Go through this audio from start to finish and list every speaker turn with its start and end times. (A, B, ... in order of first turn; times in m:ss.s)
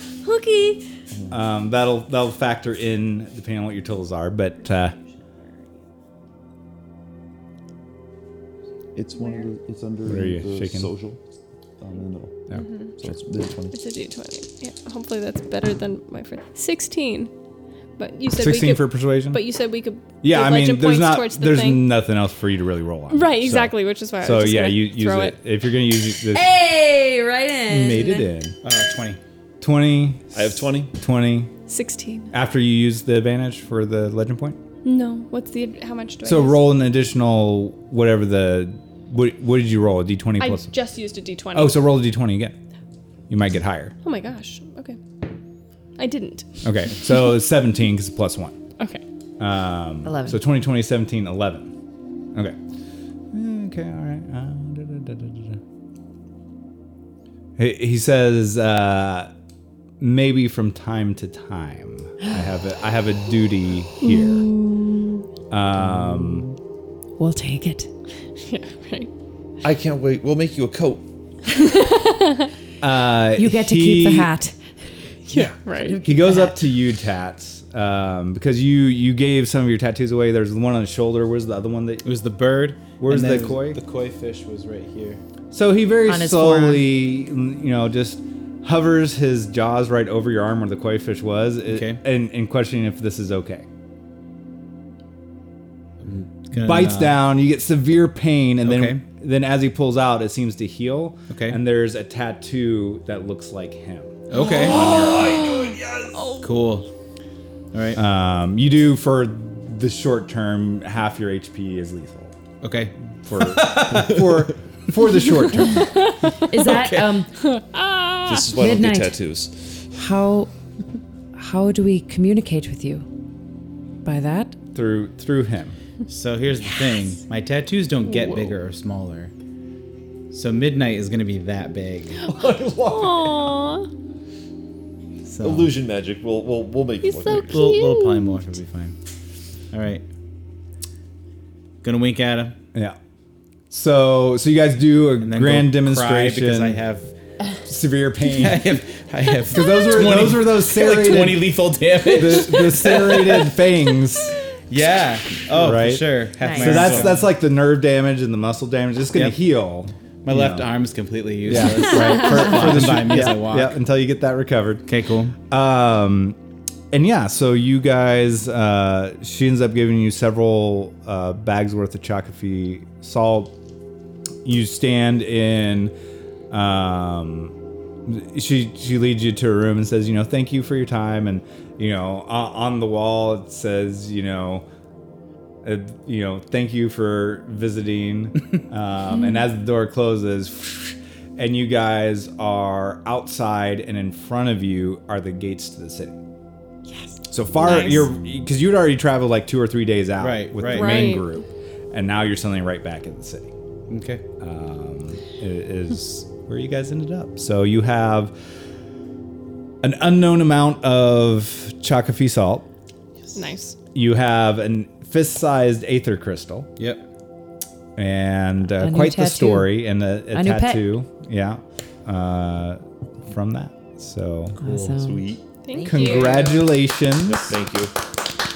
0:00.2-0:00.8 A
0:01.1-0:01.4 B
0:01.3-0:05.0 C
0:04.7-0:05.1 A
0:09.0-0:11.2 B
0:09.2-0:09.5 A
0:10.0-0:10.9 C
0:11.8-0:13.7 B
0:12.5-0:13.0 A
0:13.7-0:17.3 A
0:18.0-0:21.9 A
0:18.3-0:19.4 C
0:20.2-0:26.5 C
0:23.1-0:25.4 A
0:26.3-0:28.3 D
0:27.7-0:28.6 C
0:28.6-0:29.2 E
0:29.6-0:31.5 C
0:30.3-0:30.9 B
0:31.7-0:32.3 A
0:32.3-0:34.6 C
0:34.8-0:36.7 A
0:36.2-0:40.7 C
0:40.4-0:41.8 A
0:41.5-0:42.6 C
0:43.3-0:44.0 C
0:44.0-0:45.0 A
0:46.0-0:46.6 A
0:46.6-0:48.6 C
0:49.4-0:51.7 C
0:50.0-0:50.4 D
0:53.3-0:55.6 C
0:57.6-0:59.3 C
1:00.0-1:04.5 C
1:04.0-1:05.2 D
1:05.5-1:06.5 C
1:07.2-1:07.9 D
1:08.4-1:09.1 A
1:09.6-1:11.0 B
1:12.8-1:14.3 C
1:13.3-1:14.6 D
1:15.3-1:16.6 D
1:15.3-1:16.0 A
1:16.0-1:22.1 C
1:22.0-1:25.2 E
1:23.0-1:23.8 C
1:25.5-1:33.7 C
1:26.0-1:26.9 D
1:31.7-1:32.0 E
1:36.0-1:37.1 E
1:36.5-1:45.1 C
1:38.6-1:39.0 E
1:41.3-1:41.6 E
1:44.3-1:45.0 E
1:44.3-1:46.5 A
1:44.5-1:46.3 B
1:46.4-1:46.9 E
1:47.7-1:48.0 E
1:47.9-1:52.3 C
1:52.6-1:54.5 E
1:53.2-1:55.9 C
1:55.8-1:56.1 A
1:56.4-1:57.3 D
1:56.6-1:57.0 E
1:57.4-1:58.5 A
1:58.2-1:59.9 B
1:58.6-1:59.1 D
2:00.0-2:00.5 D
2:01.3-2:03.0 D
2:04.0-2:04.6 D
2:04.7-2:05.8 C
2:06.1-2:09.3 E
2:08.2-2:08.5 A
2:10.3-2:12.2 E
2:12.3-2:13.6 B
2:12.4-2:13.9 A
2:15.2-2:15.7 E
2:15.4-2:17.7 B
2:17.0-2:18.4 A
2:17.4-2:19.0 E
2:19.7-2:20.0 E
2:21.8-2:22.6 E
2:23.7-2:26.8 C
2:25.2-2:27.1 E
2:27.7-2:28.7 C
2:28.3-2:33.5 E
2:29.5-2:34.3 C
2:34.7-2:37.3 E
2:35.5-2:40.7 C
2:36.4-2:37.0 D
2:40.2-2:43.8 E
2:41.4-2:44.9 C
2:44.9-2:45.3 E
2:45.5-2:46.4 C
2:46.9-2:53.5 C
2:54.4-2:55.9 C
2:56.5-2:57.5 C
2:58.0-3:04.6 C
3:05.6-3:16.2 C
3:17.3-3:23.5 C
3:17.6-3:18.0 D
3:20.2-3:21.2 E
3:20.6-3:21.3 A
3:23.9-3:24.2 E
3:24.4-3:28.3 C
3:29.8-3:32.7 C
3:33.3-3:33.8 A
3:33.9-3:36.7 C
3:36.8-3:37.0 E
3:38.0-3:44.6 C
3:38.8-3:39.8 D
3:40.3-3:40.9 D
3:44.6-3:45.3 D
3:44.6-3:45.0 E
3:45.0-3:45.4 B
3:45.6-3:46.6 A
3:45.8-3:47.6 C
3:47.2-3:47.9 B